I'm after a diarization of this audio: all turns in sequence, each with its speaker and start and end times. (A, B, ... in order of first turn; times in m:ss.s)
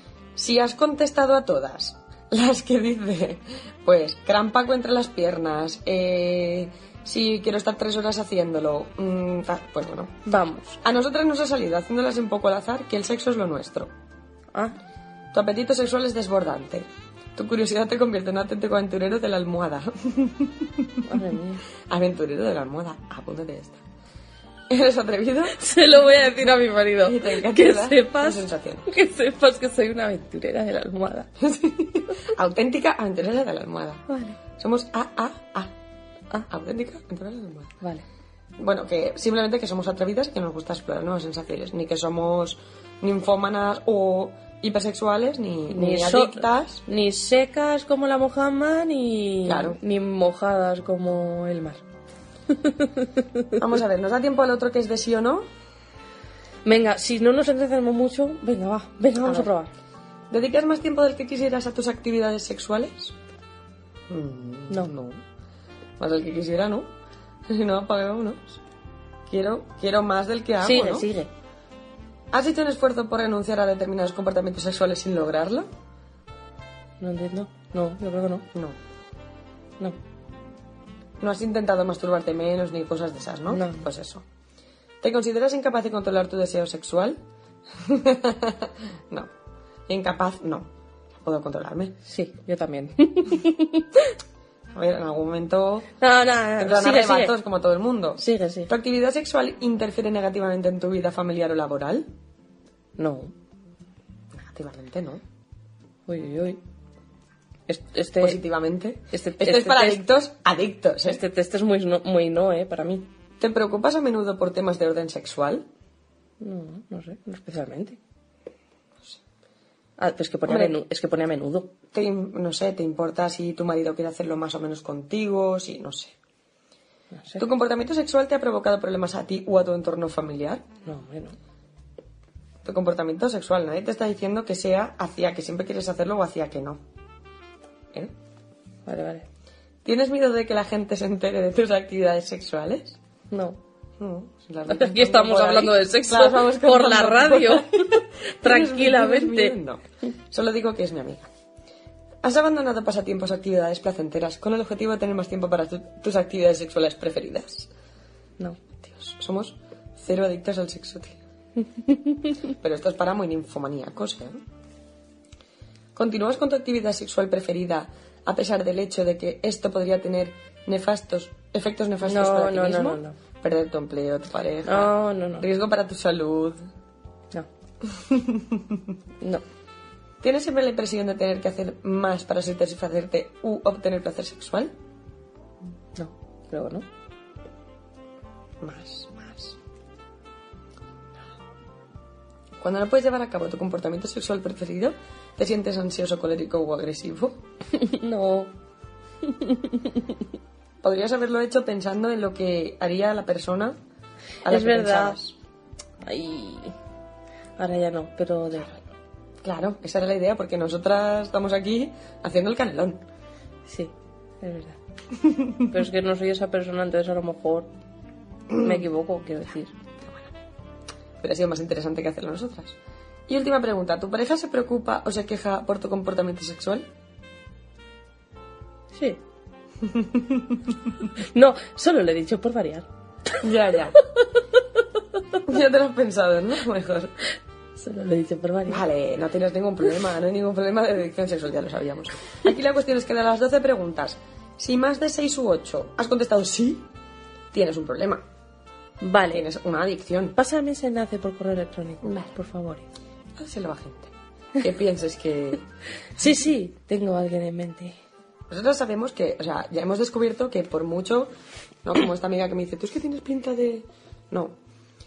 0:00.4-0:10.1 A
0:10.2-0:10.8 B
0:10.8-0:13.9 A
0:15.3-0:20.9 A
0:21.1-0:21.6 B
0:21.9-0:23.8 A
0:24.7-0:25.6 A
0:25.5-0:31.3 B
0:27.0-0:28.9 A
0:31.4-0:34.0 A
0:34.1-0:34.4 B
0:34.6-0:35.7 A
0:36.5-0:37.7 A
0:38.6-0:46.8 A
0:45.7-0:51.8 B
0:49.5-0:49.8 A
0:52.6-0:53.4 B
0:53.6-0:55.4 A
0:56.6-0:59.7 B
0:59.2-0:59.5 A
1:00.3-1:03.2 A
1:04.1-1:05.2 A
1:06.0-1:06.9 A
1:07.5-1:08.6 A
1:09.3-1:11.1 A
1:10.6-1:11.3 B
1:12.3-1:15.7 A
1:17.0-1:18.5 B
1:21.2-1:24.2 A
1:23.5-1:23.8 B
1:25.0-1:27.2 A
1:27.8-1:29.3 A
1:29.9-1:32.0 A
1:32.0-1:34.1 B
1:34.7-1:35.9 A
1:36.0-1:37.4 B
1:36.6-1:42.1 A
1:38.2-1:38.7 B
1:43.0-1:43.3 B
1:44.4-1:45.2 A
1:46.1-1:46.6 B
1:47.7-1:48.4 B
1:48.2-1:51.2 A
1:49.1-1:50.0 B
1:51.0-1:53.1 B
1:53.4-1:55.6 A
1:56.4-1:58.0 B
2:00.0-2:01.7 B
2:00.5-2:00.8 A
2:01.9-2:06.2 A
2:07.2-2:07.4 B
2:07.4-2:10.6 A
2:10.8-2:11.4 B
2:12.6-2:16.8 A
2:18.9-2:19.3 B
2:19.8-2:23.0 A
2:23.3-2:23.6 B
2:24.0-2:31.3 A
2:24.7-2:29.6 B
2:32.2-2:37.7 A
2:38.8-2:41.2 A
2:42.6-2:44.4 A
2:46.0-2:56.6 A
2:52.0-2:53.2 B
2:54.6-2:55.5 B
2:57.9-2:58.8 A
3:00.2-3:04.7 A
3:06.0-3:06.9 B
3:08.6-3:09.6 A
3:12.6-3:17.4 A
3:17.7-3:18.5 B
3:19.3-3:20.1 B
3:20.8-3:23.8 A
3:24.4-3:25.4 A
3:24.5-3:25.2 B
3:26.0-3:26.8 B
3:27.6-3:28.9 B
3:29.4-3:33.0 A
3:33.7-3:34.8 B
3:35.5-3:37.7 B
3:38.5-3:39.8 B
3:38.5-3:38.8 A
3:40.0-3:40.4 A
3:41.2-3:42.8 A
3:43.3-3:46.9 A
3:48.9-3:49.2 B
3:51.3-3:52.9 B
3:53.4-3:54.0 A
3:55.5-3:57.2 A
3:57.8-3:58.8 B
3:58.7-4:06.9 A
4:07.5-4:08.2 A
4:09.0-4:09.4 B
4:09.3-4:10.4 A
4:10.4-4:12.9 B
4:12.0-4:12.3 A
4:13.4-4:15.6 A
4:16.2-4:18.0 B
4:18.5-4:21.3 A
4:21.8-4:24.6 A